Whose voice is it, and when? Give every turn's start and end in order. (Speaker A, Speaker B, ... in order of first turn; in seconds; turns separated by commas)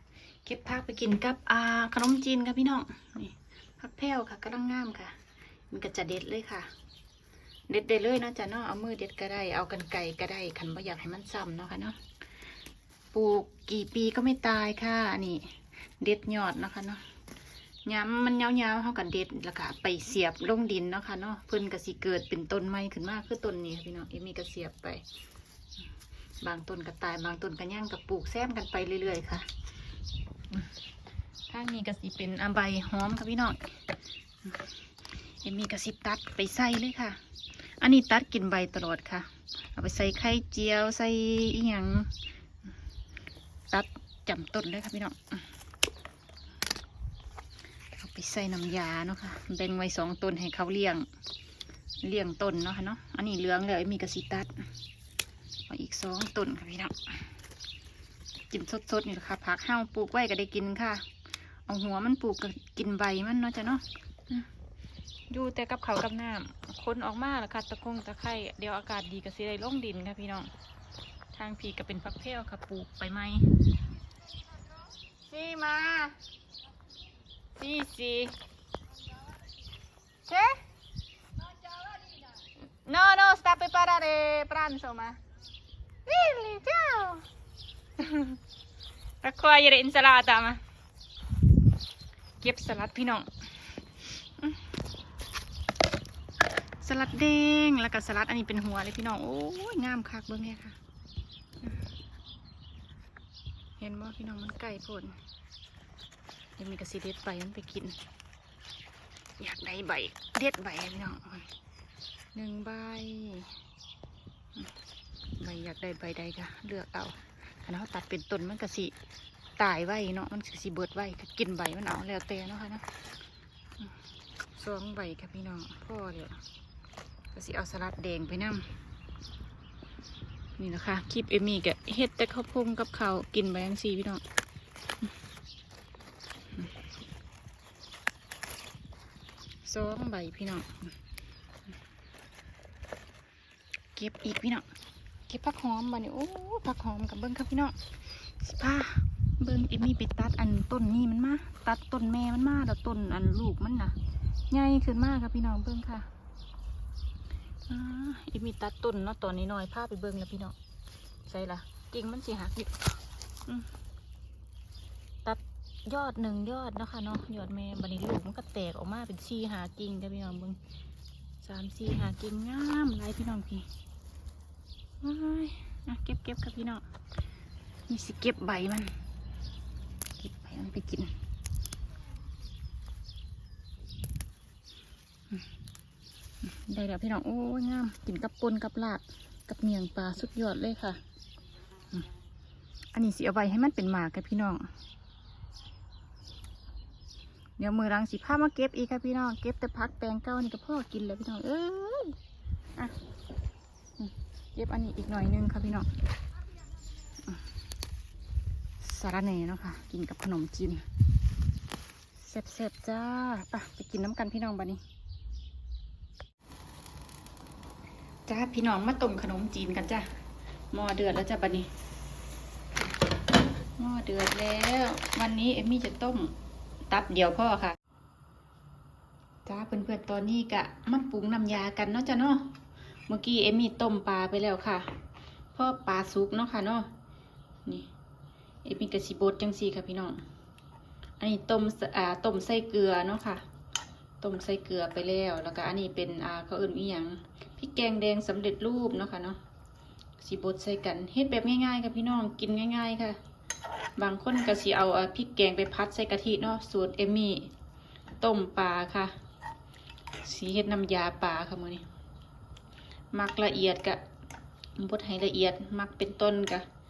Speaker A: 0.5-5.2, Speaker A: 5.7-6.7, Speaker A: 7.7-12.0, Speaker A: 13.1-17.0, Speaker A: 17.9-25.0, Speaker A: 26.4-29.5, Speaker A: 31.5-33.8, Speaker A: 34.4-42.1, Speaker A: 43.7-45.5, Speaker A: 47.9-51.1, Speaker A: 52.0-54.7, Speaker A: 55.7-57.3, Speaker A: 58.5-61.1, Speaker A: 61.7-64.5, Speaker A: 65.3-70.5, Speaker A: 71.3-73.5, Speaker A: 75.2-76.2, Speaker A: 77.6-78.4, Speaker A: 80.3-80.6, Speaker A: 81.7-82.2, Speaker A: 82.8-85.2, Speaker A: 86.1-87.2, Speaker A: 88.0-88.4, Speaker A: 89.2-90.6, Speaker A: 92.4-93.3, Speaker A: 94.0-94.6, Speaker A: 96.8-100.8, Speaker A: 103.8-105.2, Speaker A: 106.6-108.0, Speaker A: 109.4-111.5, Speaker A: 112.3-113.5, Speaker A: 115.4-118.9, Speaker A: 119.6-122.8, Speaker A: 124.5-126.4, Speaker A: 127.3-128.7, Speaker A: 130.6-134.2, Speaker A: 139.7-140.9, Speaker A: 144.0-144.7, Speaker A: 145.3-154.0, Speaker A: 154.5-156.1, Speaker A: 157.7-160.6, Speaker A: 161.3-162.9, Speaker A: 165.2-170.6, Speaker A: 171.4-173.7, Speaker A: 175.0-176.8, Speaker A: 177.9-178.9, Speaker A: 180.2-181.1, Speaker A: 186.4-191.0, Speaker A: 192.9-194.7, Speaker A: 197.6-202.2, Speaker A: 204.0-205.9, Speaker A: 208.8-210.8, Speaker A: 212.2-214.8, Speaker A: 218.3-220.1, Speaker A: 220.7-221.7, Speaker A: 223.8-226.3, Speaker A: 226.8-227.8, Speaker A: 229.5-232.5, Speaker A: 233.1-234.9, Speaker A: 235.5-236.9, Speaker A: 238.7-240.2, Speaker A: 241.2-243.4, Speaker A: 244.2-249.4, Speaker A: 250.2-253.2, Speaker A: 254.0-257.5, Speaker A: 258.2-259.1, Speaker A: 260.2-261.8, Speaker A: 263.1-264.0, Speaker A: 264.8-266.6